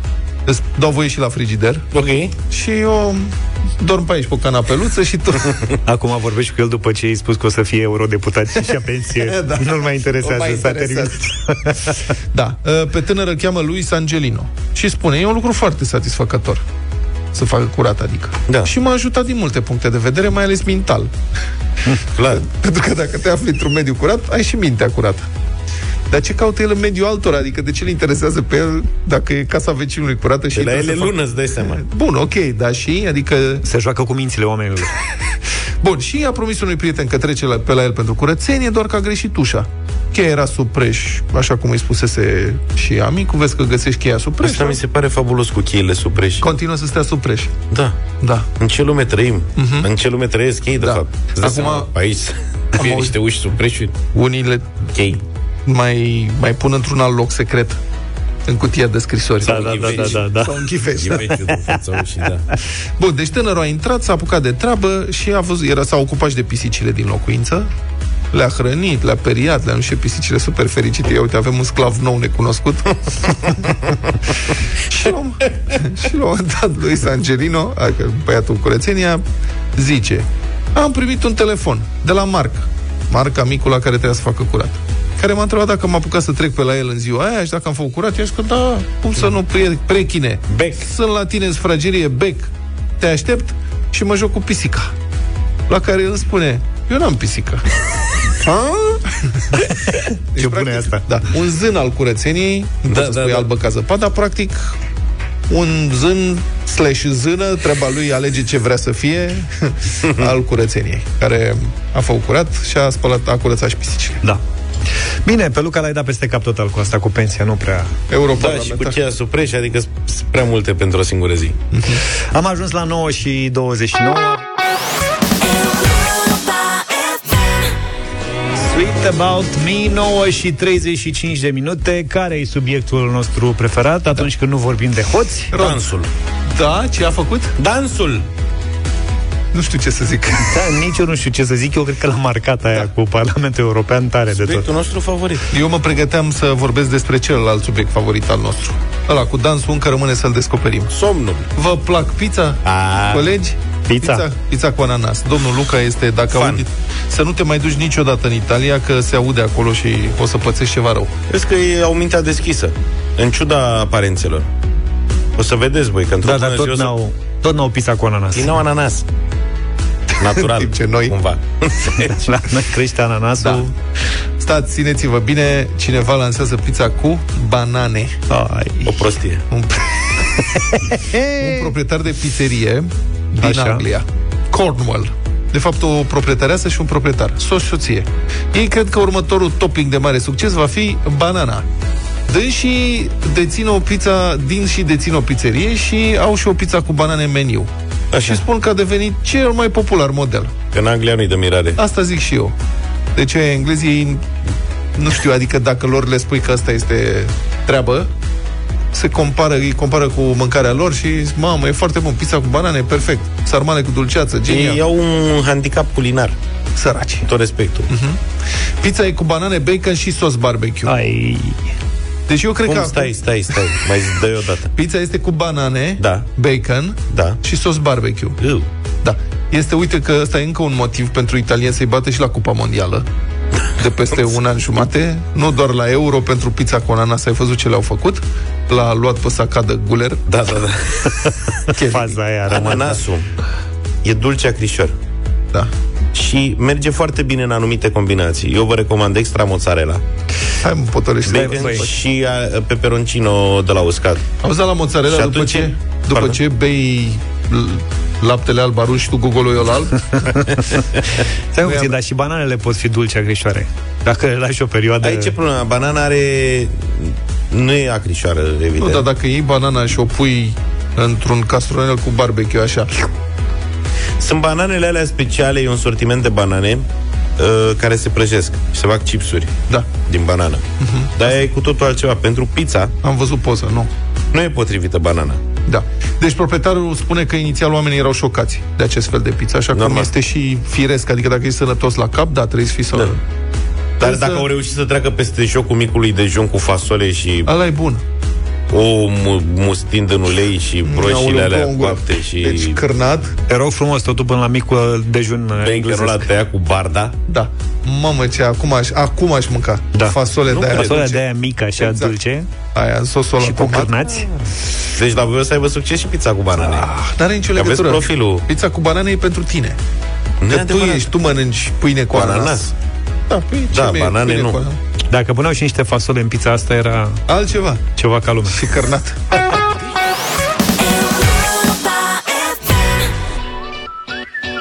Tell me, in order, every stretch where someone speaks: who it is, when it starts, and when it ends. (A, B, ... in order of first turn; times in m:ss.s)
0:00.5-0:01.9 A
0:01.9-0:02.3 B
0:02.5-0:05.6 A
0:05.9-0:12.1 C
0:09.1-0:11.1 A
0:10.4-0:11.0 B
0:12.3-0:16.6 A
0:17.3-0:21.1 A
0:22.2-0:22.4 B
0:22.3-0:25.3 A
0:26.1-0:33.6 A
0:30.6-0:31.8 B
0:33.6-0:34.9 C
0:35.8-0:44.8 A
0:44.4-0:46.4 B
0:46.4-0:47.6 A
0:47.7-0:48.0 B
0:48.2-0:48.5 A
0:48.6-0:54.0 B
0:49.6-0:49.9 A
0:50.8-0:51.9 A
0:52.8-0:53.1 A
0:54.1-0:54.9 A
0:55.0-0:55.2 B
0:55.7-0:57.8 A
0:58.5-1:01.4 A
0:59.4-1:00.2 B
0:59.4-1:00.6 C
1:01.0-1:02.5 B
1:03.0-1:07.7 A
1:08.3-1:13.7 A
1:13.3-1:14.0 B
1:14.9-1:19.2 A
1:19.8-1:34.9 A
1:30.5-1:30.8 B
1:35.7-1:37.6 A
1:38.4-1:39.7 A
1:39.7-1:41.0 C
1:40.3-1:44.8 A
1:42.9-1:43.5 B
1:45.5-1:54.2 A
1:50.0-1:50.3 B
1:55.2-1:58.0 C
1:58.1-1:59.0 A
1:58.4-2:01.6 B
2:01.7-2:02.0 A
2:02.3-2:04.4 C
2:08.6-2:15.5 C
2:15.5-2:15.9 A
2:15.6-2:16.1 B
2:16.5-2:17.6 A
2:17.6-2:18.2 B
2:19.5-2:20.6 A
2:20.4-2:24.6 C
2:24.4-2:25.5 B
2:25.5-2:30.9 A
2:30.9-2:31.5 B
2:31.6-2:41.1 A
2:32.6-2:33.3 B
2:33.9-2:34.3 C
2:36.3-2:36.6 B
2:41.3-2:44.5 B
2:45.4-2:47.0 B
2:46.2-2:48.5 C
2:48.4-2:49.1 B
2:50.2-2:51.2 A
2:50.2-2:52.2 B
2:52.0-2:53.7 C
2:53.4-2:53.7 A
2:54.4-2:58.2 A
2:58.3-2:59.0 C
2:58.9-2:59.4 B
2:59.5-3:00.0 A
3:00.4-3:01.7 C
3:01.4-3:11.7 A
3:03.4-3:03.8 C
3:12.3-3:20.6 A
3:18.1-3:18.4 B
3:20.7-3:21.8 B
3:21.8-3:22.6 A
3:23.2-3:24.3 A
3:25.0-3:28.1 A
3:28.9-3:34.8 A
3:34.5-3:36.4 B
3:36.8-3:37.3 A
3:37.3-3:37.9 B
3:37.9-3:38.2 A
3:38.8-3:41.0 A
3:40.9-3:41.7 C
3:42.3-3:43.1 A
3:42.7-3:44.7 B
3:44.7-3:48.4 A
3:46.0-3:46.3 B
3:47.1-3:47.4 B
3:48.4-3:48.7 B
3:49.0-3:53.1 A
3:53.8-4:00.2 A
4:00.3-4:01.3 B
4:01.3-4:03.0 C
4:01.7-4:02.2 A
4:02.5-4:03.3 B
4:04.0-4:04.9 B
4:06.2-4:10.0 B
4:10.6-4:11.9 A
4:11.3-4:14.2 B
4:11.3-4:11.9 C
4:14.4-4:20.0 A
4:15.1-4:16.4 B
4:20.2-4:20.6 C
4:21.5-4:25.3 C
4:21.6-4:22.0 A
4:25.0-4:29.1 B
4:28.8-4:32.9 A
4:34.2-4:36.9 B
4:37.4-4:39.6 B
4:40.1-4:40.6 B
4:40.8-4:41.4 A
4:41.2-4:42.9 B
4:43.0-4:43.9 A
4:44.3-4:45.4 B
4:45.7-4:53.2 A
4:49.8-4:50.1 B
4:54.0-4:54.5 A
4:54.0-4:57.5 B
4:57.4-4:58.0 A
4:58.7-5:02.8 B
5:00.8-5:03.4 A
5:03.5-5:06.3 C
5:05.6-5:07.2 B
5:07.3-5:11.2 A
5:09.9-5:12.5 C
5:10.5-5:11.1 B
5:11.8-5:12.2 A
5:12.7-5:14.1 A
5:13.4-5:14.3 C
5:15.0-5:16.9 B
5:16.6-5:19.8 A
5:17.5-5:18.4 B
5:20.4-5:21.1 B
5:20.5-5:22.6 A
5:22.1-5:22.7 B
5:23.3-5:24.8 A
5:23.7-5:24.6 B
5:25.1-5:27.2 C
5:27.3-5:27.9 A
5:28.0-5:28.7 C
5:28.4-5:29.4 A